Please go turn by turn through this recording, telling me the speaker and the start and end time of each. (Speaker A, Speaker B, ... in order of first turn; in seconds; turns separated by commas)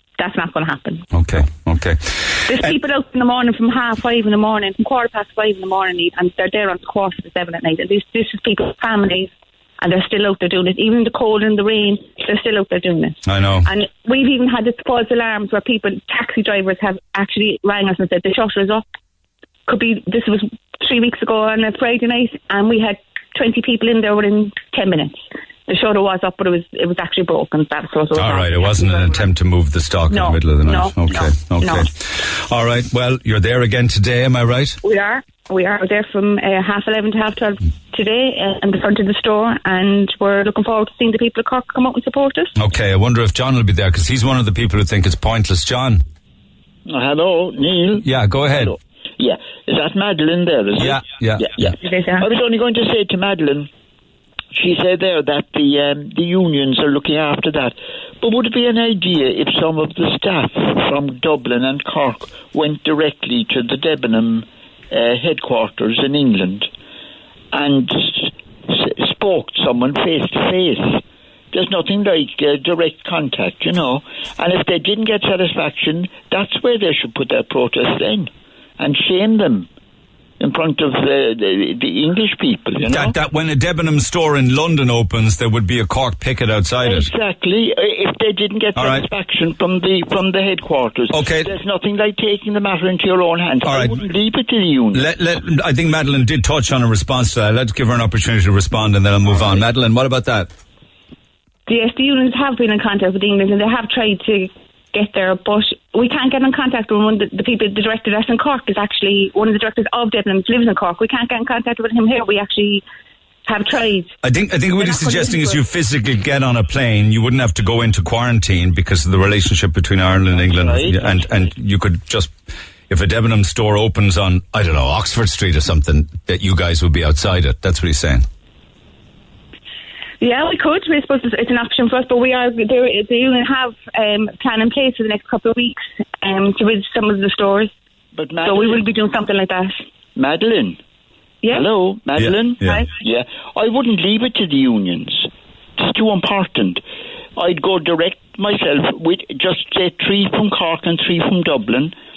Speaker A: 0.2-1.1, Speaker B: 1.1-2.8, Speaker A: 2.5-18.9, Speaker B: 13.2-13.7, Speaker A: 19.7-29.3, Speaker B: 28.1-34.8, Speaker A: 30.1-31.9, Speaker A: 34.8-42.5, Speaker B: 42.6-46.0, Speaker C: 46.9-53.7, Speaker B: 48.0-48.7, Speaker B: 50.8-51.8, Speaker A: 51.8-52.3, Speaker C: 54.5-66.7, Speaker C: 67.5-79.7, Speaker C: 80.4-83.2, Speaker B: 82.9-87.1, Speaker C: 86.8-95.2, Speaker B: 88.8-89.0, Speaker B: 91.1-91.5, Speaker B: 93.7-94.0, Speaker B: 94.9-100.5, Speaker A: 101.7-112.8, Speaker A: 113.5-114.1, Speaker B: 114.2-122.3, Speaker A: 114.8-115.6, Speaker C: 120.3-121.5, Speaker B: 122.9-128.3, Speaker A: 130.2-137.7, Speaker C: 138.2-138.9, Speaker A: 138.4-139.8, Speaker C: 140.2-140.8, Speaker C: 141.5-146.8, Speaker B: 142.2-142.8, Speaker C: 147.4-151.9